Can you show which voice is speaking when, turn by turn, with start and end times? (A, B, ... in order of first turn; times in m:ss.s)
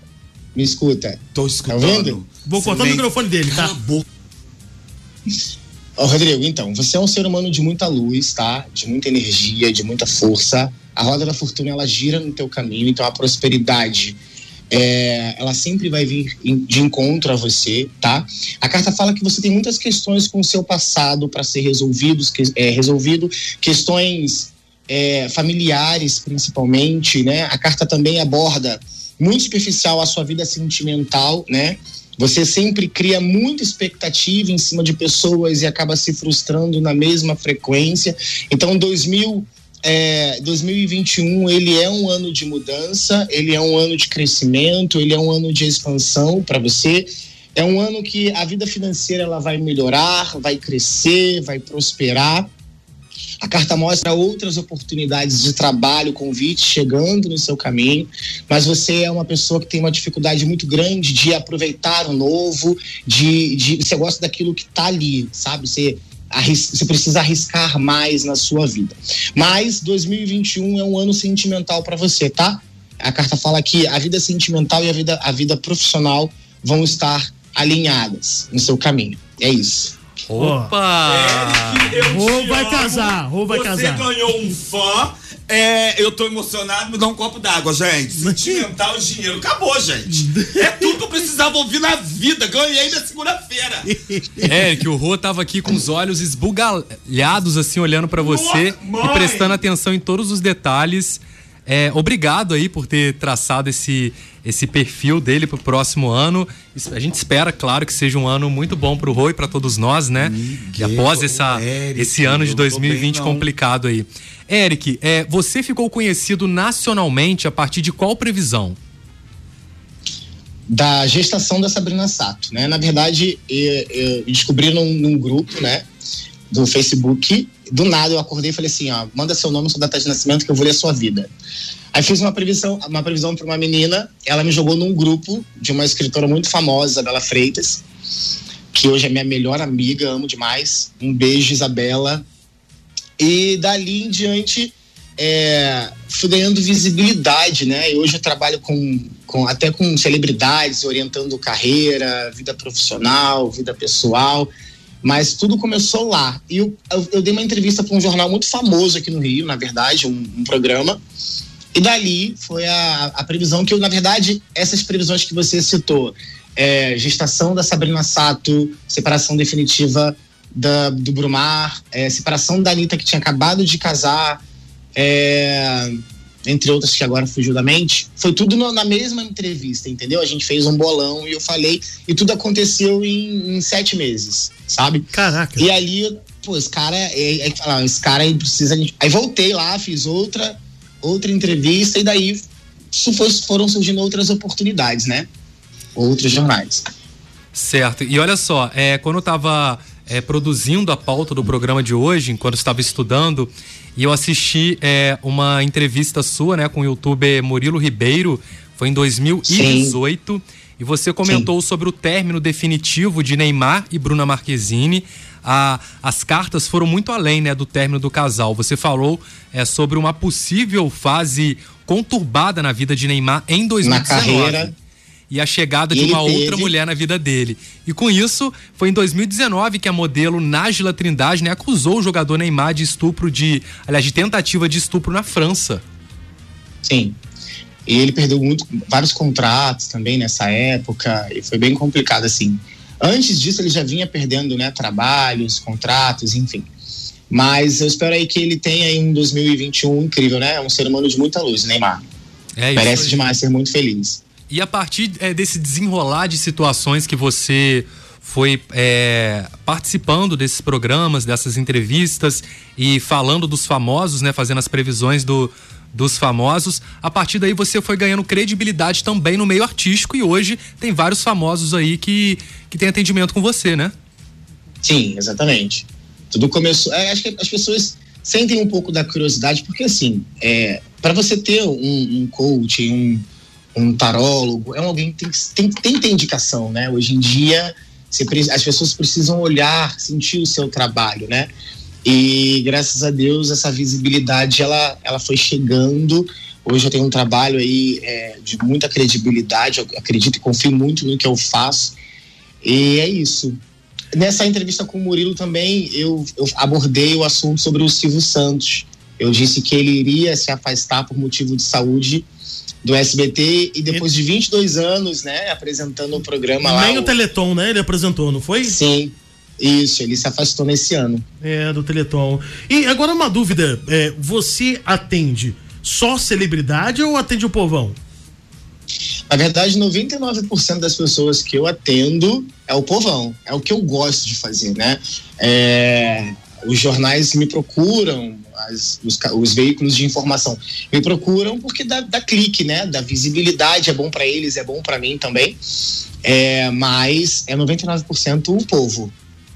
0:00.6-0:02.2 A
0:01.4-0:04.0 B
0:02.5-0:03.8 C
0:06.0-0:14.2 A
0:14.7-0:52.5 A
0:53.4-1:20.0 A
1:20.3-1:22.0 D
1:20.4-1:20.7 C
1:21.0-1:33.9 B
1:22.1-1:24.1 C
1:28.2-1:28.7 C
1:30.1-1:31.0 C
1:33.8-1:34.5 C
1:34.4-1:58.8 D
1:38.2-1:39.6 B
1:50.2-1:53.5 B
2:00.7-2:05.9 A
2:06.5-2:11.3 A
2:11.9-2:17.8 A
2:18.7-2:22.2 A
2:23.2-2:34.5 A
2:35.0-2:41.0 A
2:41.7-2:54.4 A
2:55.0-3:15.3 A
3:05.1-3:05.7 C
3:16.0-3:16.8 A
3:17.6-3:44.7 D
3:29.5-3:30.0 A
3:43.8-3:44.7 A
3:45.3-3:55.8 D
3:45.9-3:46.7 A
3:56.8-3:57.2 A
3:57.9-4:06.7 A
4:07.3-4:12.0 A
4:12.6-4:13.3 D
4:12.8-4:14.2 A
4:14.5-4:33.9 D
4:34.8-4:51.5 A
4:52.0-5:02.0 A
5:02.6-5:03.6 A
5:04.1-5:12.3 A
5:12.8-5:17.1 A
5:16.6-5:18.8 C
5:18.6-5:21.2 A
5:21.4-5:28.0 C
5:29.3-5:45.6 A
5:46.2-5:49.1 A